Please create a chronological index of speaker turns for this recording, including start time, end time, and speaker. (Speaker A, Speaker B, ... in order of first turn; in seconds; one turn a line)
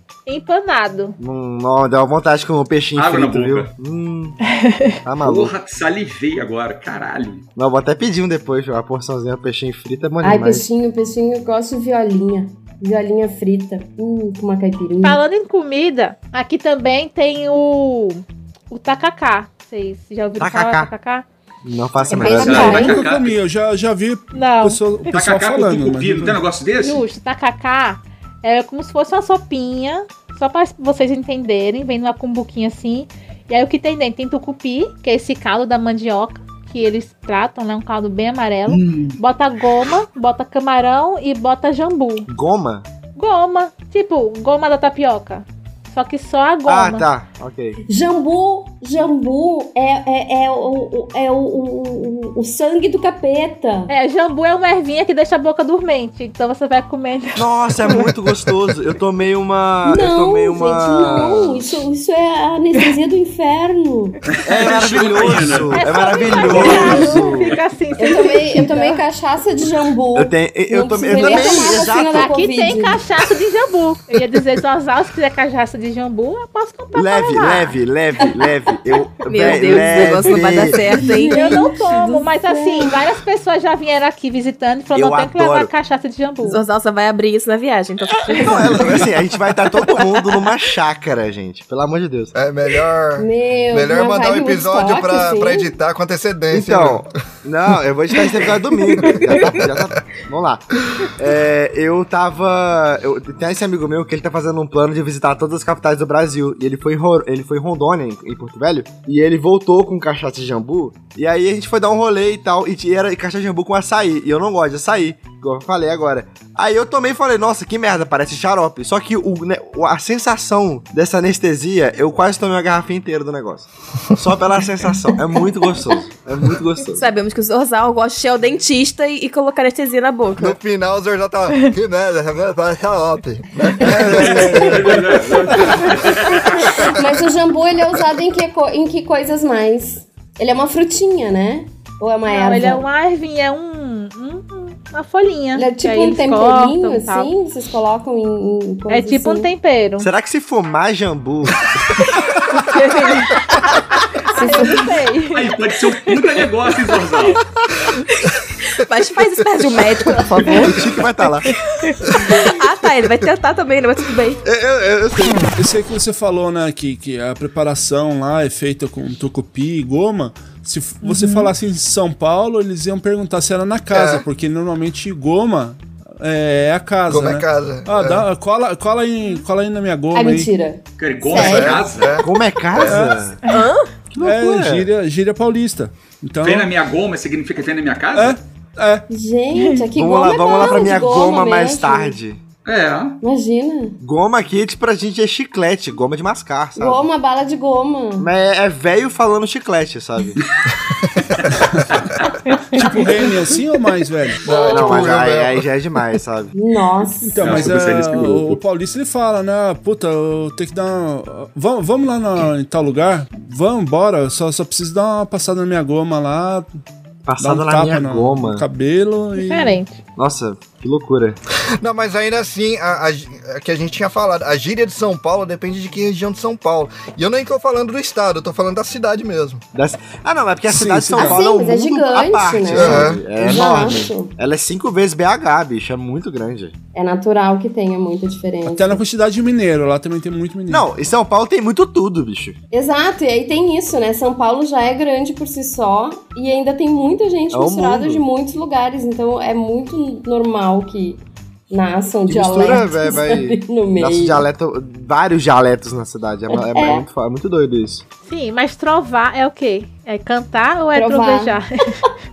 Speaker A: 0.3-1.2
Speaker B: 1.2-4.4
Speaker C: 3.0-3.7
Speaker A: 4.5-5.0
Speaker B: 5.0-5.5
Speaker C: 5.2-7.5
Speaker B: 7.6-10.7
Speaker D: 10.2-15.2
Speaker A: 15.0-21.2
Speaker B: 20.4-20.9
Speaker B: 21.6-22.9
Speaker D: 22.1-23.0
Speaker A: 22.2-22.9
Speaker C: 22.3-23.4
Speaker E: 22.6-26.4
Speaker A: 24.3-24.8
Speaker C: 25.1-27.0
Speaker A: 26.8-42.3
Speaker C: 38.7-39.2
Speaker B: 42.3-42.9
Speaker A: 43.2-47.1
Speaker B: 46.7-47.8
Speaker D: 47.9-53.9
Speaker A: 53.9-57.5
Speaker B: 57.4-61.7
Speaker D: 59.9-64.4
Speaker C: 64.4-67.6
Speaker B: 64.4-67.6
Speaker A: 65.7-69.0
Speaker D: 66.3-67.0
Speaker D: 68.0-73.0
Speaker B: 70.2-72.3
Speaker A: 71.1-77.8
Speaker B: 77.0-80.9
Speaker F: 79.3-81.5
Speaker D: 79.5-80.2
Speaker D: 80.9-83.0
Speaker A: 81.2-86.6
Speaker B: 84.9-85.7
Speaker F: 86.4-89.1
Speaker B: 88.3-92.3
Speaker F: 89.9-90.1
Speaker G: 92.3-97.1
Speaker D: 93.2-95.7
Speaker B: 96.5-127.1
Speaker F: 98.9-99.7
Speaker F: 126.9-130.6
Speaker G: 130.4-135.2
Speaker B: 133.9-134.7
Speaker C: 134.0-136.9
Speaker D: 135.6-142.9
Speaker G: 136.6-137.2
Speaker A: 142.3-147.3
Speaker D: 145.6-149.5
Speaker A: 148.9-150.1
Speaker B: 150.0-151.7
Speaker F: 152.3-154.0
Speaker A: 152.6-153.4
Speaker A: 154.3-155.6
Speaker D: 154.3-155.0
Speaker C: 155.3-157.4
Speaker F: 158.1-164.4
Speaker B: 160.4-161.5
Speaker B: 164.4-165.5
Speaker E: 165.6-180.5
Speaker A: 171.0-171.5
Speaker G: 173.9-174.2
Speaker G: 177.1-178.3
Speaker D: 180.1-181.9
Speaker C: 181.0-182.2
Speaker G: 181.3-183.0
Speaker B: 182.2-183.4
Speaker E: 182.8-183.2
Speaker F: 183.5-183.9
Speaker B: 184.1-184.9
Speaker E: 184.2-186.7
Speaker C: 186.4-188.4
Speaker E: 188.2-189.1
Speaker D: 189.1-192.2
Speaker A: 189.6-189.9
Speaker B: 190.0-192.4
Speaker C: 192.7-193.2
Speaker D: 193.2-194.0
Speaker B: 194.0-197.1
Speaker D: 196.8-198.3
Speaker B: 198.2-200.4
Speaker G: 200.9-201.5
Speaker C: 201.4-202.9
Speaker E: 201.6-201.9
Speaker E: 202.7-204.5
Speaker G: 204.4-205.7
Speaker D: 204.5-205.2
Speaker B: 204.5-206.5
Speaker D: 206.5-207.7
Speaker E: 207.2-216.7
Speaker C: 207.4-208.6
Speaker B: 217.2-218.7
Speaker E: 217.4-219.8
Speaker A: 219.3-220.0
Speaker B: 220.2-221.4
Speaker G: 221.8-229.6
Speaker B: 229.8-236.8
Speaker E: 230.7-231.4
Speaker D: 231.1-234.3
Speaker G: 232.7-233.2
Speaker D: 236.9-239.0
Speaker E: 238.7-240.9
Speaker B: 240.7-242.6
Speaker D: 242.7-254.5
Speaker B: 247.5-248.2
Speaker B: 252.3-258.0
Speaker D: 256.5-257.1
Speaker A: 258.3-262.1
Speaker D: 260.9-261.6